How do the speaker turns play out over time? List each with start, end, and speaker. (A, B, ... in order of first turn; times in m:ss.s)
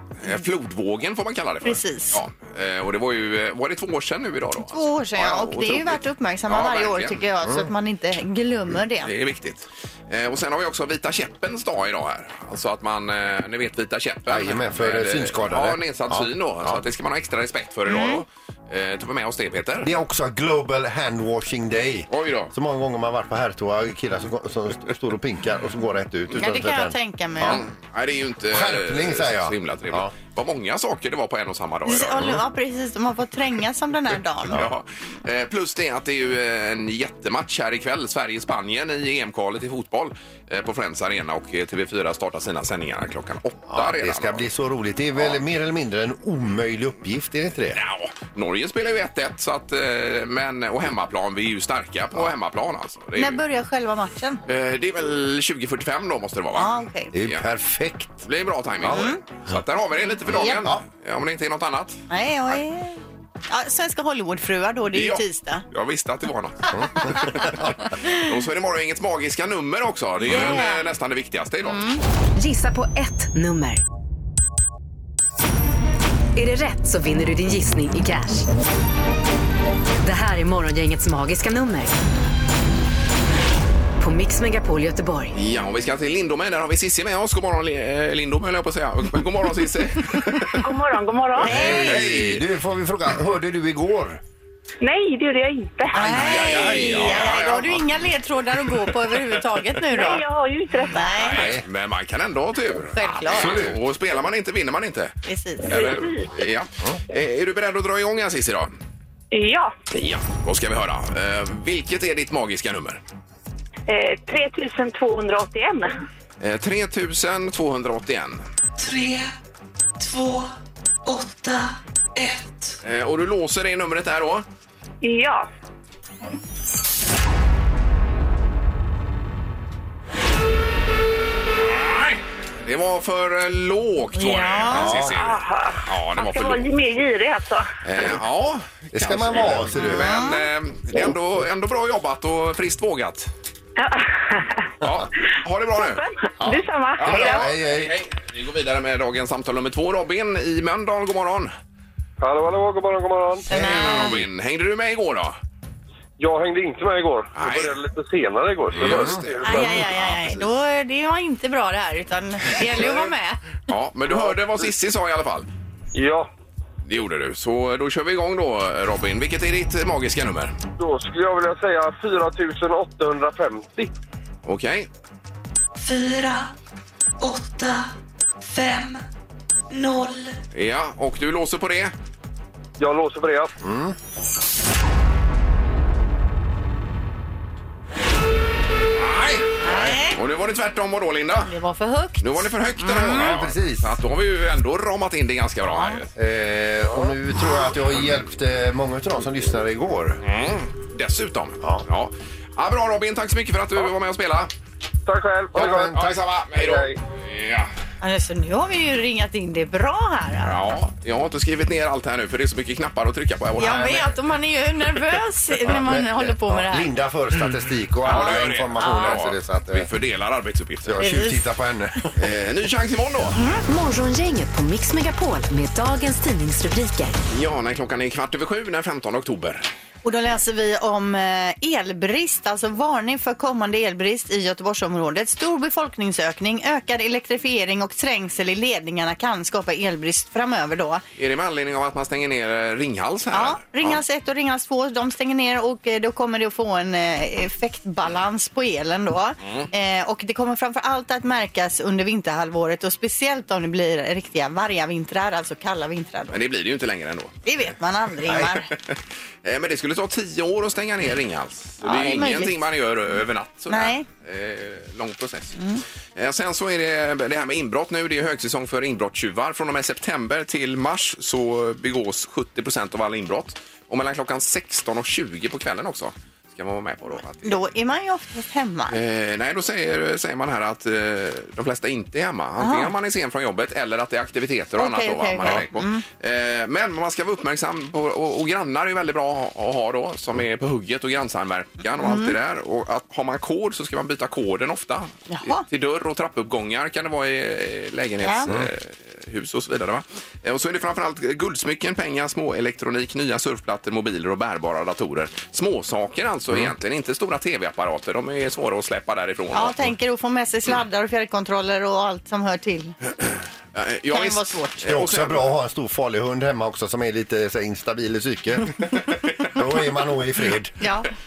0:00.2-0:07.2 A
0:01.6-0:02.2 B
0:04.6-0:09.1 B
0:07.4-0:07.7 C
0:09.0-0:19.9 A
0:14.3-0:16.8 C
0:17.9-0:18.2 B
0:19.8-0:27.0 C
0:22.1-0:22.5 A
0:26.4-0:27.6 B
0:27.4-0:32.4 A
0:28.5-0:30.1 C
0:31.8-0:34.6 B
0:34.5-0:44.5 A
0:43.7-0:47.8 C
0:47.7-0:53.4 A
0:53.2-0:54.4 B
0:54.5-0:57.4 A
0:56.5-0:57.1 B
0:57.1-0:58.2 C
0:58.2-1:02.0 A
0:58.8-0:59.6 C
0:58.9-0:59.2 B
1:00.3-1:00.8 C
1:02.1-1:05.6 B
1:04.9-1:11.8 A
1:06.7-1:07.7 C
1:10.3-1:10.8 B
1:11.6-1:12.0 B
1:12.4-1:13.8 D
1:16.3-1:18.4 D
1:20.0-1:21.9 D
1:24.0-1:25.3 D
1:25.3-1:30.6 A
1:30.6-1:31.6 E
1:31.4-1:34.2 C
1:31.4-1:32.0 B
1:31.6-1:32.4 A
1:34.8-1:36.3 E
1:35.9-1:40.2 B
1:36.0-1:37.9 A
1:36.6-1:37.0 C
1:39.9-1:41.2 E
1:40.9-1:41.4 B
1:41.1-1:45.1 A
1:41.4-1:41.6 C
1:42.9-1:43.6 B
1:43.3-1:43.8 C
1:45.2-1:45.9 B
1:45.7-1:48.7 A
1:45.8-1:46.3 E
1:49.3-1:49.7 E
1:49.9-1:53.0 A
1:53.9-1:56.0 E
1:56.4-1:58.4 A
1:58.8-1:59.3 F
2:00.0-2:00.5 F
2:01.0-2:02.8 F
2:02.8-2:04.4 A
2:05.0-2:05.5 E
2:11.6-2:16.7 A
2:14.1-2:14.9 B
2:14.7-2:15.1 C
2:15.0-2:17.7 E
2:17.8-2:23.3 A
2:18.9-2:20.2 C
2:19.9-2:20.4 B
2:23.8-2:24.7 E
2:24.8-2:26.0 A
2:25.8-2:27.4 E
2:26.4-2:28.0 C
2:27.0-2:31.5 A
2:32.2-2:33.4 G
2:33.4-2:34.2 C
2:33.5-2:34.2 B
2:33.6-2:35.4 A
2:36.2-2:39.6 G
2:37.3-2:37.8 A
2:38.7-2:40.5 A
2:38.7-2:39.6 C
2:39.4-2:43.4 B
2:43.7-2:45.5 A
2:46.0-2:46.3 G
2:46.8-2:50.6 A
2:50.8-2:53.9 G
2:54.4-2:54.9 A
2:55.8-2:56.5 F
2:57.2-2:59.0 F
2:59.7-3:00.4 F
3:00.5-3:01.9 A
3:02.8-3:03.5 G
3:03.6-3:04.0 C
3:09.0-3:09.5 A
3:09.6-3:10.2 B
3:09.6-3:10.0 C
3:10.1-3:11.5 A
3:11.4-3:13.4 B
3:12.2-3:16.1 A
3:13.0-3:13.9 C
3:15.6-3:16.0 B
3:16.2-3:20.2 C
3:20.2-3:24.5 A
3:21.6-3:21.8 C
3:25.1-3:25.9 G
3:25.5-3:26.2 C
3:25.7-3:27.7 A
3:26.5-3:26.9 G
3:28.0-3:30.5 B
3:30.4-3:34.0 A
3:33.6-3:34.1 C
3:33.6-3:36.9 B
3:35.6-3:39.9 C
3:38.0-3:41.0 A
3:38.8-3:39.2 B
3:40.8-3:42.2 C
3:41.0-3:41.4 B
3:42.2-3:43.4 A
3:43.3-3:43.6 B
3:43.7-3:47.2 D
3:47.3-3:49.7 A
3:50.0-4:01.0 B
4:01.2-4:04.0 A
4:03.3-4:16.4 B
4:09.4-4:09.7 A
4:16.3-4:17.6 A
4:17.4-4:18.7 B
4:18.3-4:25.6 A
4:21.8-4:22.6 B
4:23.7-4:24.0 B
4:25.6-4:25.8 B
4:26.2-4:37.6 A
4:37.4-4:39.0 B
4:38.9-5:09.8 A
4:42.6-4:42.9 B
4:44.8-4:46.0 B
4:52.0-4:52.3 B
4:55.3-4:55.6 B
4:58.2-4:58.5 B
5:09.5-5:12.9 B
5:13.7-5:15.5 A
5:14.1-5:14.8 B
5:14.8-5:19.0 C
5:19.5-5:20.7 C
5:20.8-5:21.1 B